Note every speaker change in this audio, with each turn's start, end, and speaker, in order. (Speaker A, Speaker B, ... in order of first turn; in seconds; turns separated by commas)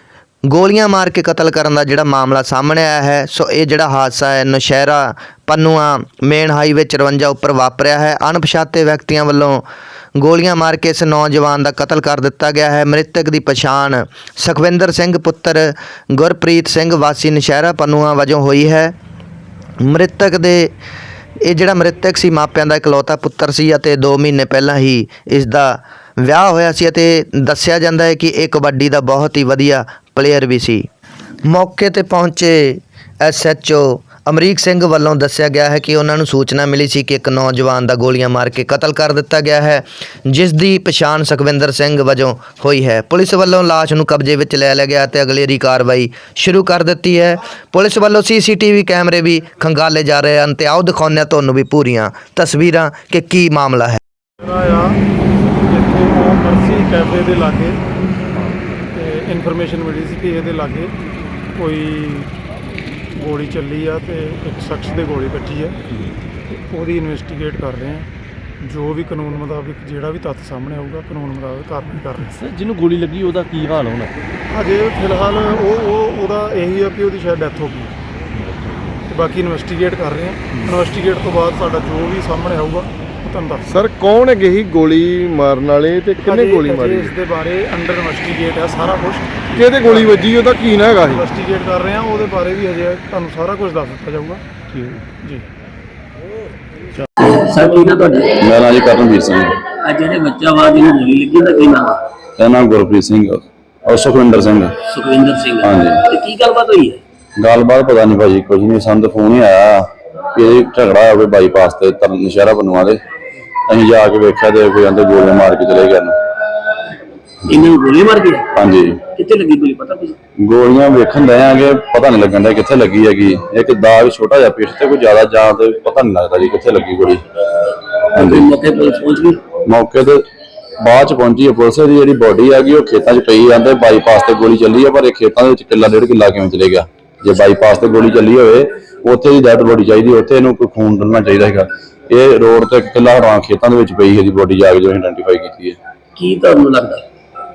Speaker A: 0.5-9.7, Speaker A: 10.2-18.9, Speaker A: 19.8-20.7, Speaker A: 21.4-30.9, Speaker A: 31.5-54.0, Speaker B: 54.4-55.0, Speaker B: 55.6-57.8, Speaker B: 58.9-60.9, Speaker B: 61.5-62.3, Speaker B: 63.1-65.8, Speaker B: 66.5-68.1, Speaker B: 68.6-72.3, Speaker C: 72.3-74.1, Speaker B: 74.5-77.9, Speaker C: 78.4-78.9, Speaker B: 79.0-83.7, Speaker D: 83.7-87.1, Speaker B: 86.2-90.3, Speaker D: 89.5-91.2, Speaker B: 91.1-94.4, Speaker B: 95.2-95.5, Speaker E: 97.2-98.3, Speaker F: 98.3-99.7, Speaker E: 99.8-102.0, Speaker F: 102.4-104.9, Speaker E: 104.9-107.0, Speaker F: 105.6-106.0, Speaker F: 107.4-113.0, Speaker F: 113.7-116.1, Speaker E: 117.4-118.5, Speaker F: 118.5-119.0, Speaker E: 119.1-120.2, Speaker F: 120.4-127.2, Speaker F: 128.1-128.5, Speaker E: 128.1-129.4, Speaker F: 129.6-130.2, Speaker F: 130.8-145.8, Speaker E: 146.2-147.0